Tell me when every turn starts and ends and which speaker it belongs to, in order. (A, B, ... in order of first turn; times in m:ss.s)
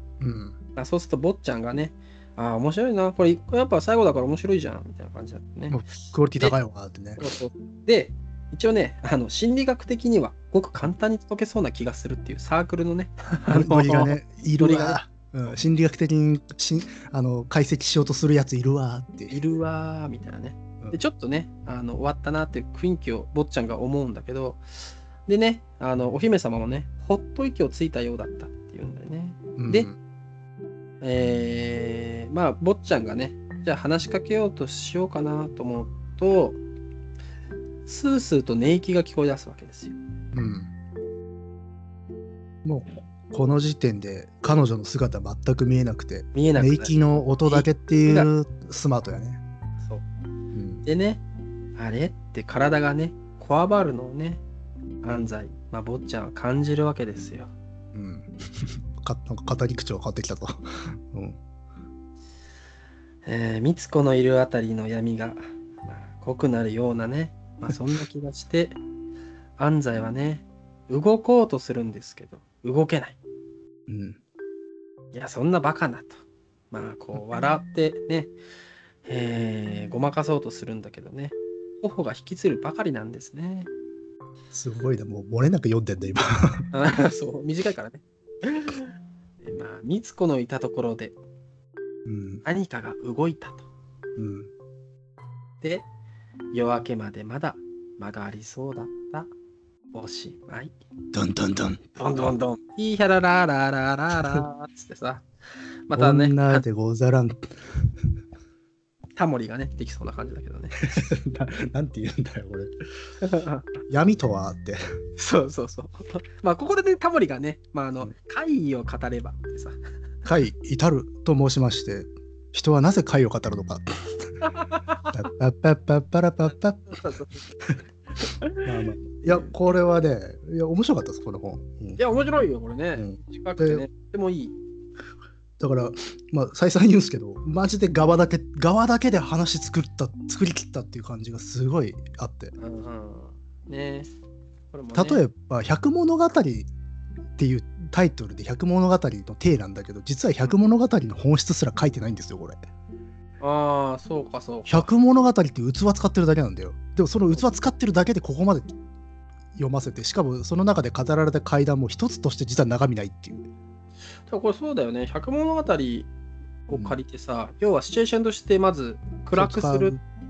0:00.2-0:00.6 A
0:00.8-0:05.8 B
0:05.7-0:07.2 A
0:07.2-0:15.0 B
0:13.5-0:19.4 A
0:19.3-0:24.6 B
0:25.2-0:29.9 B
0:29.6-0:30.0 A
0:31.0-0:36.6 B
0:37.8-0:40.0 B
0:40.3-0:40.7 A
0:42.6-0:49.4 A
0:46.3-0:48.3 B
0:50.5-0:50.8 A
0:50.8-0:51.2 B
0:51.8-0:54.4 B
0:55.0-0:57.5 B
0:57.9-1:01.4 A
1:03.2-1:08.8 B
1:09.6-1:13.2 B
1:13.9-1:14.2 A
1:15.1-1:18.3 B
1:19.0-1:23.7 B
1:24.5-1:26.7 A
1:26.7-1:28.9 B
1:29.4-1:31.2 B
1:32.0-1:32.4 A
1:32.4-1:33.7 B
1:34.2-1:34.5 A
1:36.5-1:39.3 B
1:39.9-1:40.7 B
1:41.1-1:42.0 A
1:42.0-1:45.2 B
1:45.9-1:46.6 B
1:45.9-1:47.9 A
1:49.2-1:51.0 B
1:50.8-1:52.7 A
1:53.2-1:53.7 B
1:53.9-1:54.8 A
1:55.2-1:59.8 B
2:00.2-2:04.1 A
2:04.4-2:05.2 B
2:05.1-2:07.0 A
2:06.9-2:07.4 B
2:08.2-2:09.5 B
2:08.6-2:12.0 A
2:12.0-2:14.6 B
2:13.0-2:13.8 A
2:15.6-2:22.5 A
2:22.6-2:24.1 B
2:24.7-2:25.2 B
2:24.9-2:26.7 A
2:27.4-2:32.6 A
2:33.4-2:34.9 B
2:34.6-2:38.7 A
2:39.5-2:43.5 A
2:44.3-2:46.1 B
2:46.7-2:50.0 B
2:49.3-2:50.0 A